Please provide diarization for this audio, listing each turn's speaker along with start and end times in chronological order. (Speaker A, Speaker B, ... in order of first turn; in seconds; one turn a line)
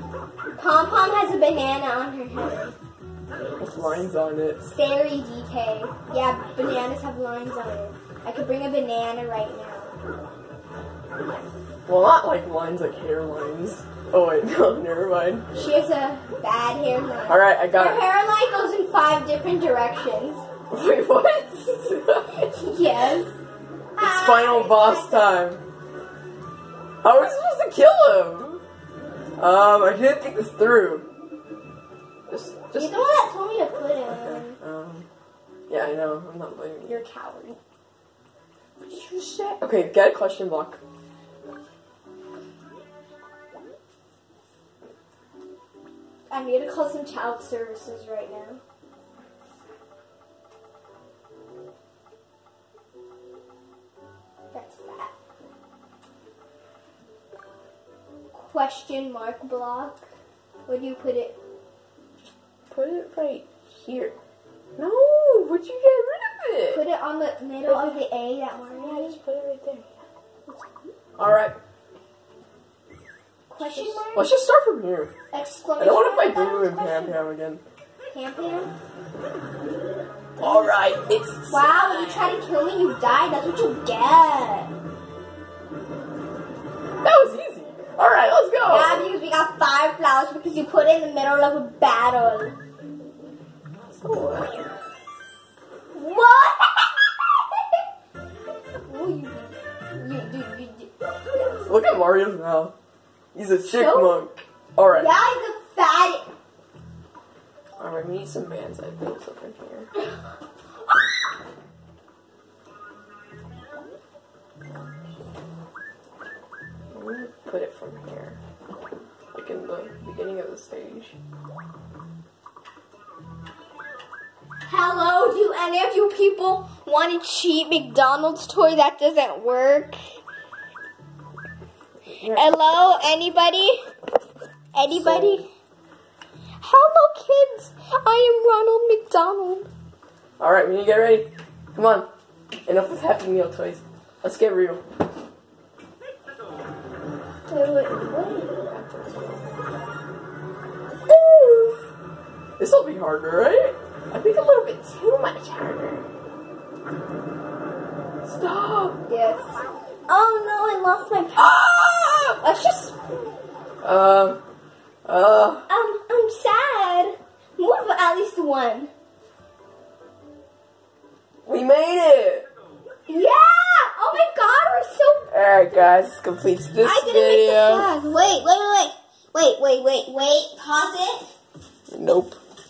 Speaker A: 0.5-2.7
Speaker B: 3.6-4.7
Speaker A: 4.7-9.9
Speaker B: 11.9-15.5
Speaker A: 15.5-20.4
Speaker B: 17.3-18.1
Speaker B: 20.7-22.6
Speaker A: 22.5-23.3
Speaker A: 23.9-25.3
Speaker B: 24.0-25.6
Speaker B: 27.0-28.6
Speaker B: 29.4-31.1
Speaker B: 32.3-33.3
Speaker A: 32.7-34.6
Speaker B: 34.1-35.0
Speaker B: 35.7-37.0
Speaker A: 36.9-37.6
Speaker A: 38.8-39.6
Speaker B: 39.6-40.8
Speaker A: 46.3-48.6
Speaker A: 54.5-55.1
Speaker A: 58.3-60.0
Speaker A: 60.6-61.4
Speaker B: 62.7-64.1
Speaker B: 64.8-66.8
Speaker A: 66.7-69.2
Speaker B: 67.6-68.0
Speaker B: 68.7-69.9
Speaker B: 71.2-71.5
Speaker A: 73.5-74.3
Speaker B: 73.6-75.1
Speaker A: 75.3-77.2
Speaker B: 75.8-77.6
Speaker A: 78.1-78.7
Speaker A: 80.4-80.7
Speaker B: 80.4-82.4
Speaker A: 81.5-84.7
Speaker B: 87.0-89.2
Speaker A: 88.7-92.5
Speaker B: 93.8-94.6
Speaker A: 95.9-97.4
Speaker A: 98.8-101.7
Speaker B: 101.7-102.7
Speaker B: 103.3-105.1
Speaker A: 103.7-104.2
Speaker A: 104.9-106.3
Speaker B: 107.8-109.9
Speaker B: 116.9-118.4
Speaker B: 119.3-121.2
Speaker A: 124.7-130.0
Speaker B: 132.1-132.8
Speaker A: 132.3-133.8
Speaker A: 134.7-135.5
Speaker B: 134.9-135.4
Speaker A: 136.6-139.7
Speaker B: 140.4-142.1
Speaker B: 142.7-144.8
Speaker A: 147.5-148.5
Speaker B: 148.7-149.5
Speaker A: 151.0-151.8
Speaker B: 152.6-156.1
Speaker B: 158.2-159.0
Speaker A: 159.1-161.6
Speaker B: 161.3-162.4
Speaker A: 162.4-163.0
Speaker B: 163.8-164.4
Speaker B: 165.0-165.7
Speaker A: 165.7-168.9
Speaker B: 171.4-172.5
Speaker A: 173.1-175.3
Speaker B: 175.3-177.9
Speaker A: 176.8-181.3
Speaker B: 181.9-182.4